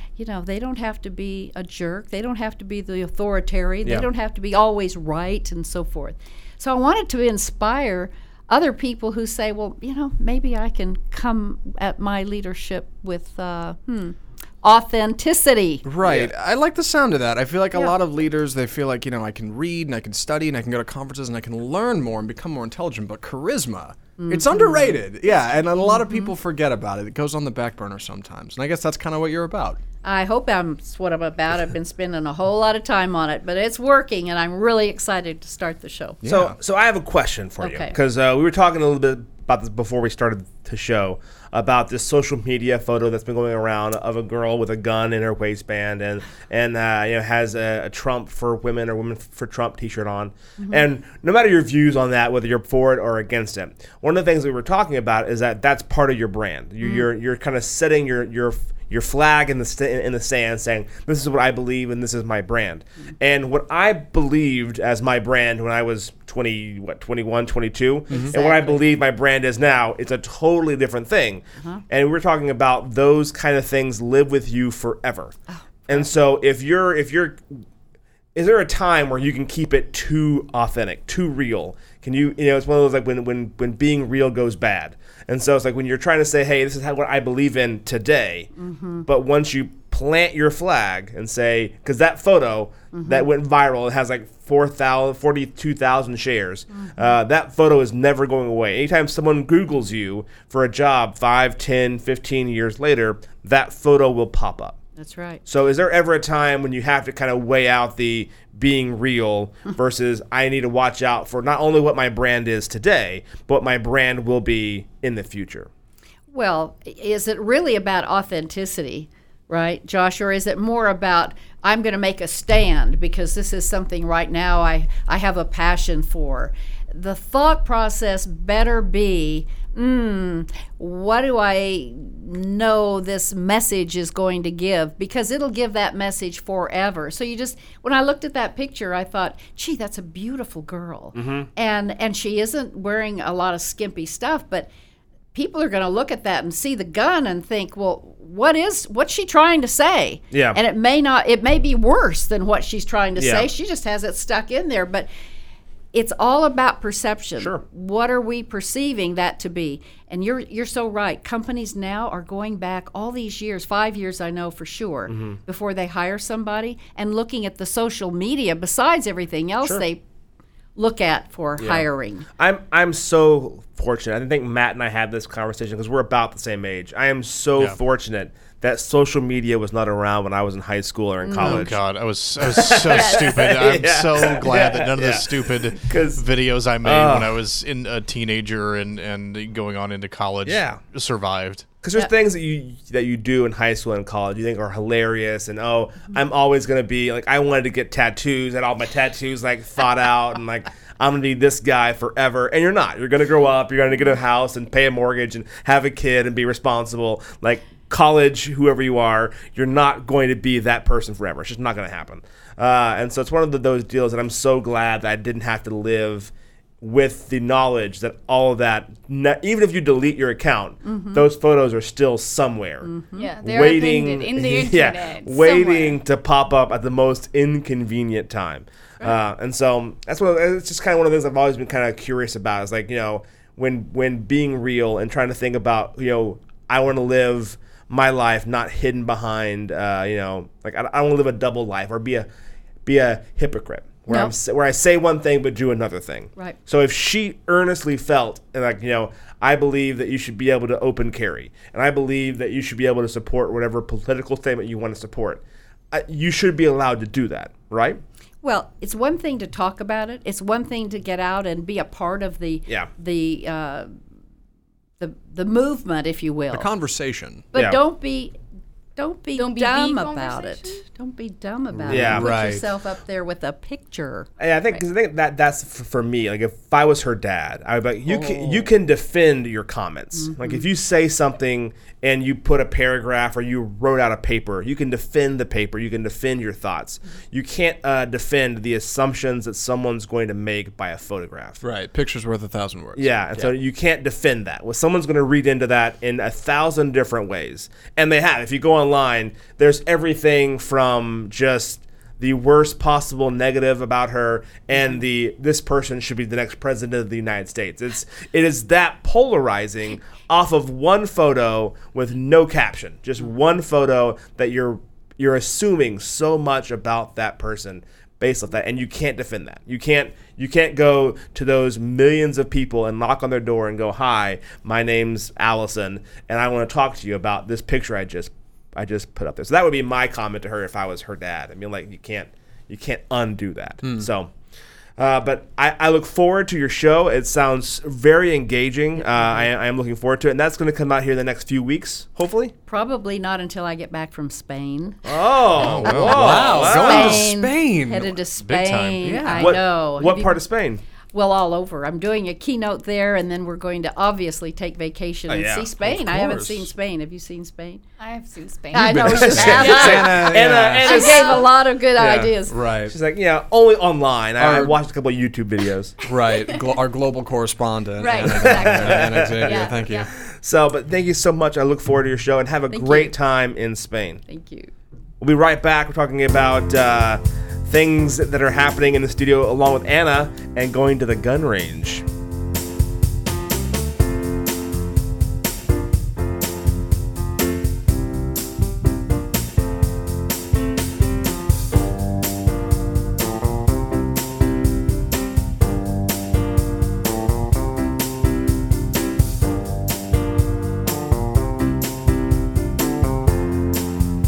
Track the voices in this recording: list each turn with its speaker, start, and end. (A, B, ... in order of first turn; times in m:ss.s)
0:00.2-0:16.3 A
0:15.8-0:29.8 B
0:24.2-0:25.0 A
0:25.9-0:26.3 A
0:30.0-0:36.2 A
0:36.2-0:36.6 B
0:36.3-1:15.4 C
0:37.6-0:38.0 A
1:08.1-1:08.8 A
1:15.5-1:16.1 A
1:15.9-1:17.6 C
1:18.4-1:28.5 C
1:28.6-1:29.1 A
1:29.1-1:44.8 C
1:32.9-1:33.3 A
1:36.7-1:37.1 A
1:45.0-1:45.4 A
1:45.5-1:55.7 C
1:56.3-2:24.7 A
2:21.1-2:21.5 C
2:25.3-2:35.1 A
2:30.3-2:30.6 C
2:33.2-2:33.5 C
2:35.9-2:50.0 A
2:45.1-2:45.4 C
2:50.8-2:52.3 A
2:51.6-2:51.9 C
2:52.4-3:01.8 C
3:01.2-3:01.7 A
3:01.4-3:11.7 D
3:02.4-3:06.2 C
3:02.9-3:03.4 E
3:06.8-3:07.4 C
3:10.4-3:10.8 C
3:11.8-3:42.9 C
3:40.8-3:41.2 A
3:42.8-3:43.3 A
3:43.2-3:46.0 E
3:43.4-4:02.3 C
4:02.9-4:18.0 C
4:04.1-4:04.3 A
4:18.4-4:23.9 A
4:25.0-4:26.7 A
4:26.5-4:27.5 B
4:27.5-4:28.4 A
4:27.5-4:27.8 C
4:29.0-4:34.3 A
4:29.4-4:30.8 E
4:31.8-4:32.6 B
4:31.9-4:32.3 C
4:34.4-4:51.6 C
4:38.1-4:38.7 A
4:40.1-4:40.6 A
4:51.6-4:53.5 B
4:53.0-5:34.3 C
5:33.8-5:34.1 B
5:35.0-5:42.5 C
5:42.7-5:45.0 A
5:45.0-5:47.3 C
5:45.6-5:46.6 D
5:46.0-5:48.1 B
5:46.7-5:50.4 A
5:48.4-5:49.3 D
5:49.0-5:49.6 B
5:49.3-5:50.8 C
5:51.1-5:57.8 A
5:55.3-5:55.7 C
5:55.8-5:56.7 B
5:58.0-6:00.0 E
5:58.7-6:02.6 A
5:58.7-6:00.9 B
5:59.0-6:01.5 C
6:00.8-6:01.5 E
6:02.0-6:02.3 C
6:02.5-6:03.0 B
6:02.9-6:06.0 C
6:04.4-6:04.8 B
6:06.1-6:10.1 B
6:06.3-6:06.7 E
6:08.0-6:10.1 E
6:08.4-6:09.7 C
6:10.3-6:14.2 C
6:12.7-6:13.2 A
6:14.3-6:14.7 A
6:15.2-6:22.0 C